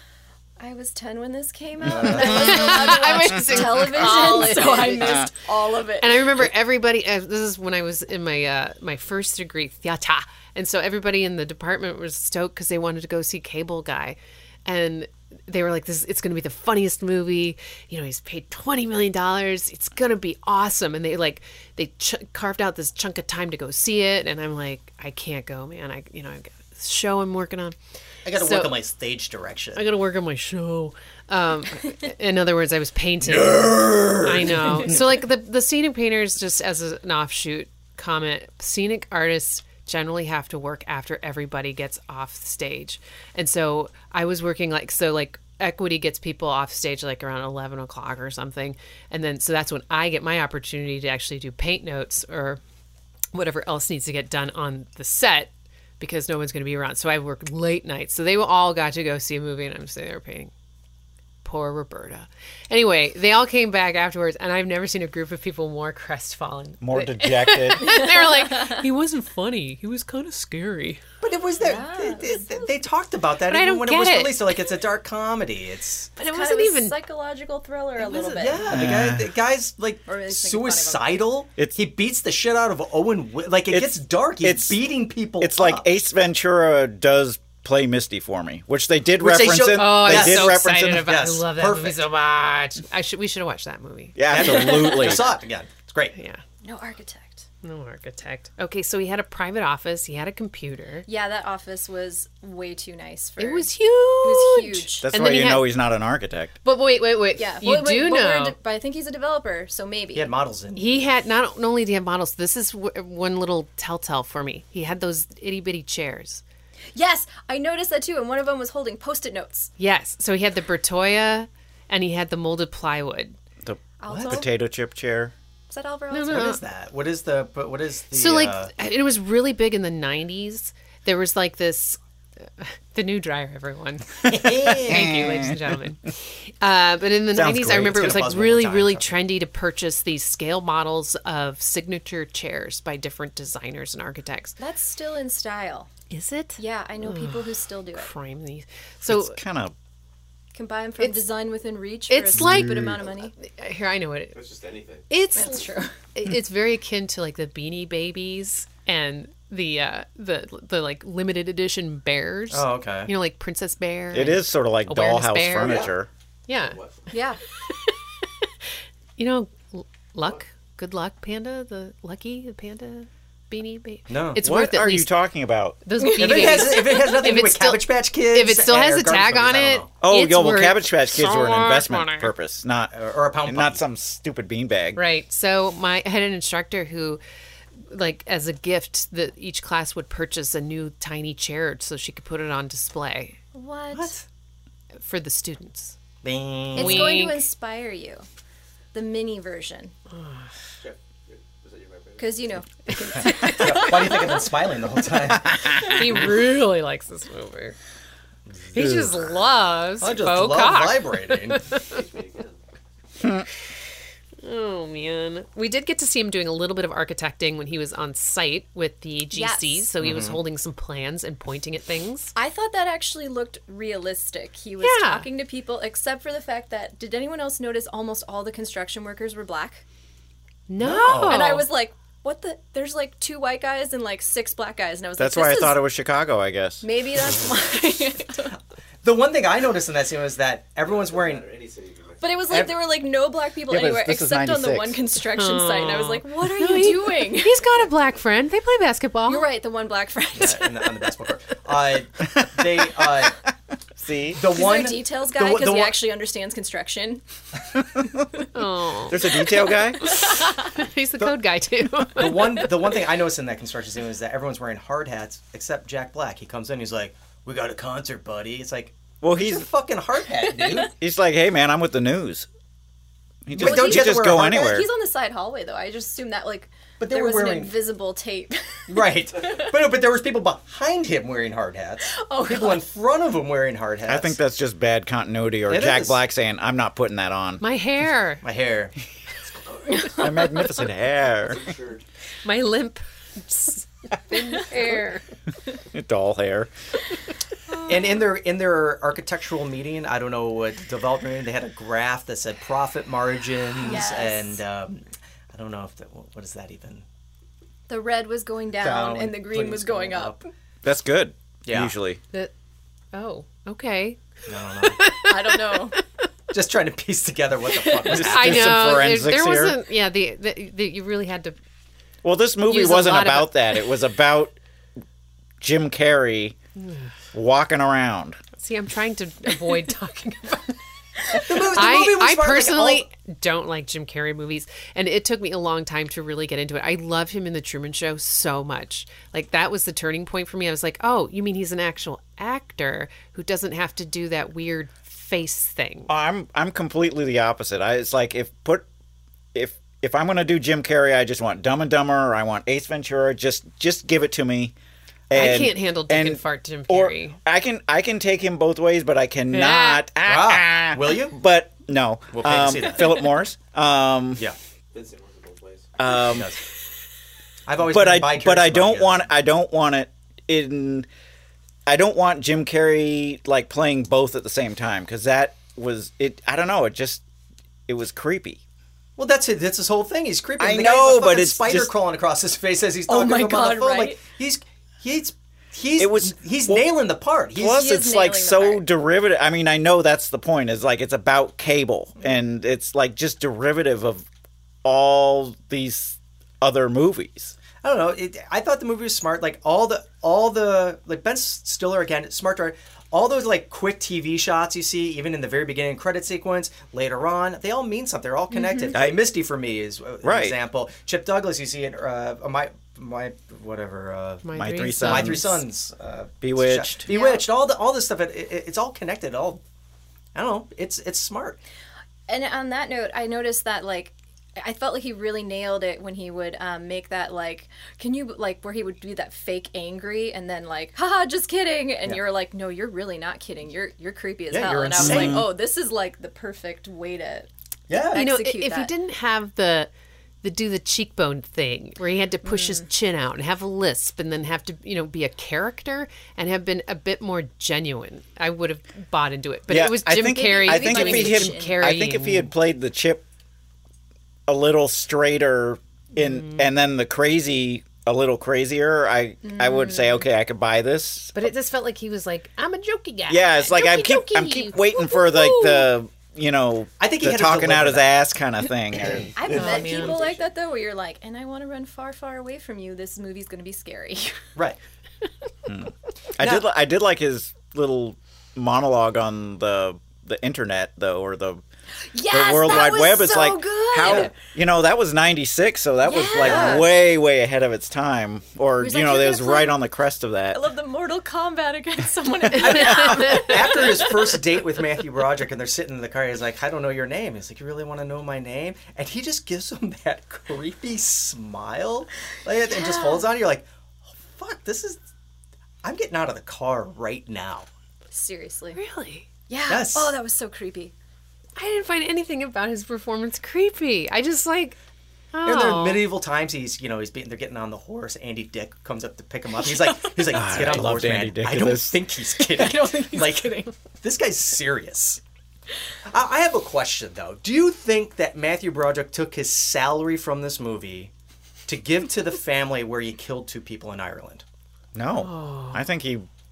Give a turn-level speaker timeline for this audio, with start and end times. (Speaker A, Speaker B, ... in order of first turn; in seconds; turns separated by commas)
Speaker A: 0.6-6.3, Speaker B: 1.9-2.6, Speaker C: 2.1-5.2, Speaker C: 6.0-27.8, Speaker B: 28.2-29.9, Speaker C: 28.3-28.8, Speaker C: 29.8-52.6, Speaker B: 33.2-35.1, Speaker C: 53.3-60.5, Speaker C: 61.4-71.0, Speaker D: 66.8-68.0, Speaker A: 67.9-68.8, Speaker B: 71.2-76.1, Speaker A: 71.6-72.7, Speaker C: 73.5-74.5, Speaker C: 76.2-77.0, Speaker A: 76.2-78.8, Speaker B: 78.0-85.9, Speaker D: 78.7-79.3, Speaker A: 80.1-81.3, Speaker D: 83.7-84.8, Speaker D: 85.4-91.1, Speaker B: 89.2-92.0, Speaker C: 89.6-94.2, Speaker D: 94.2-95.3, Speaker B: 94.3-96.2, Speaker C: 96.1-96.4, Speaker A: 96.6-97.5, Speaker C: 97.6-101.1, Speaker A: 101.1-105.1, Speaker C: 103.4-105.8, Speaker D: 105.0-106.5, Speaker C: 106.6-108.6, Speaker A: 107.3-110.3, Speaker B: 110.1-111.1, Speaker C: 110.7-116.4, Speaker A: 117.0-119.7, Speaker C: 119.8-123.3, Speaker D: 123.6-125.3, Speaker A: 124.0-124.5, Speaker B: 124.1-124.4, Speaker A: 125.7-126.6, Speaker C: 126.1-126.6, Speaker B: 126.3-128.7, Speaker C: 128.1-132.0, Speaker C: 132.6-144.6, Speaker B: 134.3-135.2, Speaker D: 134.9-135.7, Speaker D: 137.3-138.1, Speaker B: 137.7-139.1, Speaker A: 144.6-145.9, Speaker C: 146.1-149.4, Speaker A: 146.6-148.1, Speaker D: 149.1-149.8, Speaker A: 150.5-153.3, Speaker C: 151.0-151.3, Speaker C: 152.1-154.4, Speaker E: 154.3-155.1, Speaker C: 155.1-165.9, Speaker A: 155.3-155.9, Speaker B: 162.5-163.1, Speaker D: 164.1-166.1, Speaker E: 165.6-165.9, Speaker C: 166.5-166.8, Speaker E: 166.5-167.1, Speaker A: 167.1-167.4, Speaker C: 167.7-167.9, Speaker C: 169.2-175.1, Speaker B: 174.1-174.4, Speaker D: 174.4-175.8, Speaker C: 175.8-182.3, Speaker B: 176.0-179.9, Speaker A: 176.3-176.6, Speaker D: 180.0-185.0, Speaker B: 182.9-183.8, Speaker C: 184.9-187.2, Speaker C: 187.9-193.4, Speaker A: 193.5-194.2, Speaker B: 193.9-194.2, Speaker C: 195.0-196.0, Speaker B: 196.2-197.2, Speaker C: 196.7-197.5, Speaker A: 196.8-198.3, Speaker A: 198.9-199.9, Speaker C: 200.1-200.5, Speaker E: 200.8-202.5, Speaker A: 202.2-204.5, Speaker C: 203.0-203.3, Speaker B: 203.2-205.6, Speaker C: 205.8-207.8, Speaker B: 208.5-208.9, Speaker C: 208.7-212.0, Speaker D: 208.8-209.2, Speaker B: 210.0-211.6, Speaker E: 211.8-212.6, Speaker D: 213.2-213.5, Speaker C: 214.4-222.3, Speaker A: 219.3-219.9, Speaker B: 220.0-220.4, Speaker A: 222.3-229.8, Speaker C: 224.8-225.3, Speaker C: 230.7-231.7, Speaker B: 230.8-231.6, Speaker A: 231.2-235.8, Speaker D: 235.2-236.8, Speaker A: 236.8-238.6, Speaker B: 239.0-241.5, Speaker E: 240.8-242.6, Speaker A: 242.2-247.7, Speaker B: 242.5-242.8, Speaker D: 243.7-245.0, Speaker C: 245.4-249.5, Speaker A: 249.3-251.1, Speaker B: 250.3-253.4, Speaker D: 252.4-252.8, Speaker D: 254.0-254.5, Speaker B: 254.3-256.0, Speaker A: 254.5-257.2, Speaker C: 258.5-259.4, Speaker D: 259.1-260.1, Speaker C: 260.0-262.7, Speaker A: 260.4-260.7, Speaker B: 262.2-270.9, Speaker D: 269.2-269.7, Speaker D: 270.9-272.5, Speaker D: 273.5-274.9, Speaker B: 273.5-274.7, Speaker A: 273.6-279.8, Speaker B: 277.0-277.8, Speaker B: 278.9-284.4, Speaker A: 282.1-282.9, Speaker D: 284.1-287.6, Speaker B: 285.7-286.2, Speaker C: 287.6-288.4, Speaker B: 288.4-288.9, Speaker A: 290.1-290.5, Speaker D: 290.2-291.7, Speaker E: 291.5-292.0, Speaker C: 292.4-295.2, Speaker D: 295.9-296.7, Speaker B: 297.9-307.1, Speaker A: 303.9-304.6, Speaker A: 307.9-310.4, Speaker B: 308.8-310.4, Speaker D: 310.8-312.2, Speaker B: 311.7-311.9, Speaker C: 313.1-314.2, Speaker B: 314.5-315.2, Speaker C: 314.8-315.8, Speaker A: 315.2-316.0, Speaker B: 316.5-318.8, Speaker A: 317.7-318.2, Speaker D: 318.1-319.8, Speaker C: 318.2-321.6, Speaker D: 322.2-324.6, Speaker C: 322.7-323.9, Speaker D: 325.6-326.6, Speaker C: 326.8-327.1, Speaker D: 327.3-328.4, Speaker C: 328.6-330.8, Speaker C: 331.3-346.1, Speaker B: 331.4-333.1, Speaker D: 346.1-348.9, Speaker D: 349.5-354.7, Speaker D: 355.3-364.4, Speaker C: 355.3-357.4, Speaker C: 359.5-360.1, Speaker B: 360.2-361.4, Speaker B: 362.3-363.2, Speaker E: 364.9-365.9, Speaker D: 366.0-366.5, Speaker B: 366.1-366.6, Speaker B: 367.7-369.3, Speaker D: 367.8-371.1, Speaker D: 371.9-377.2, Speaker D: 377.9-378.6, Speaker B: 379.2-387.8, Speaker D: 380.6-381.9, Speaker A: 383.1-384.2, Speaker D: 386.0-387.0, Speaker D: 387.6-394.2, Speaker A: 387.6-388.8, Speaker D: 394.8-397.6, Speaker B: 397.8-414.5, Speaker A: 408.5-409.0, Speaker D: 408.9-409.3, Speaker D: 410.2-410.6, Speaker C: 414.4-415.6, Speaker D: 414.5-415.6, Speaker B: 415.0-419.6, Speaker D: 416.4-417.1, Speaker A: 417.1-417.5, Speaker B: 420.4-421.6, Speaker A: 422.3-438.9, Speaker B: 434.5-435.5, Speaker D: 435.0-435.5, Speaker B: 437.9-438.3, Speaker C: 438.1-439.9, Speaker C: 440.4-452.5, Speaker A: 442.4-442.9, Speaker D: 449.7-453.2, Speaker A: 450.2-451.8, Speaker D: 454.5-461.5, Speaker C: 456.2-456.7, Speaker A: 459.4-460.2, Speaker C: 461.3-465.9, Speaker D: 463.3-470.0, Speaker B: 467.0-468.1, Speaker A: 469.4-474.4, Speaker C: 469.5-470.3, Speaker D: 475.7-481.6, Speaker B: 476.4-476.6, Speaker A: 482.1-484.4, Speaker D: 482.3-490.7, Speaker B: 484.0-484.3, Speaker A: 486.0-486.9, Speaker B: 486.4-486.9, Speaker A: 488.8-489.8, Speaker A: 490.5-494.2, Speaker B: 492.5-503.7, Speaker C: 492.7-493.5, Speaker A: 502.7-503.3, Speaker B: 504.3-505.0, Speaker B: 505.8-507.7, Speaker A: 508.1-508.8, Speaker C: 508.8-509.3, Speaker A: 509.5-510.9, Speaker B: 509.7-510.1, Speaker C: 511.6-514.8, Speaker C: 515.3-516.1, Speaker B: 515.4-525.2, Speaker A: 519.6-520.6, Speaker D: 520.3-522.0, Speaker A: 522.6-523.6, Speaker B: 526.1-531.1, Speaker B: 531.7-534.4, Speaker D: 535.0-536.3, Speaker C: 535.1-535.9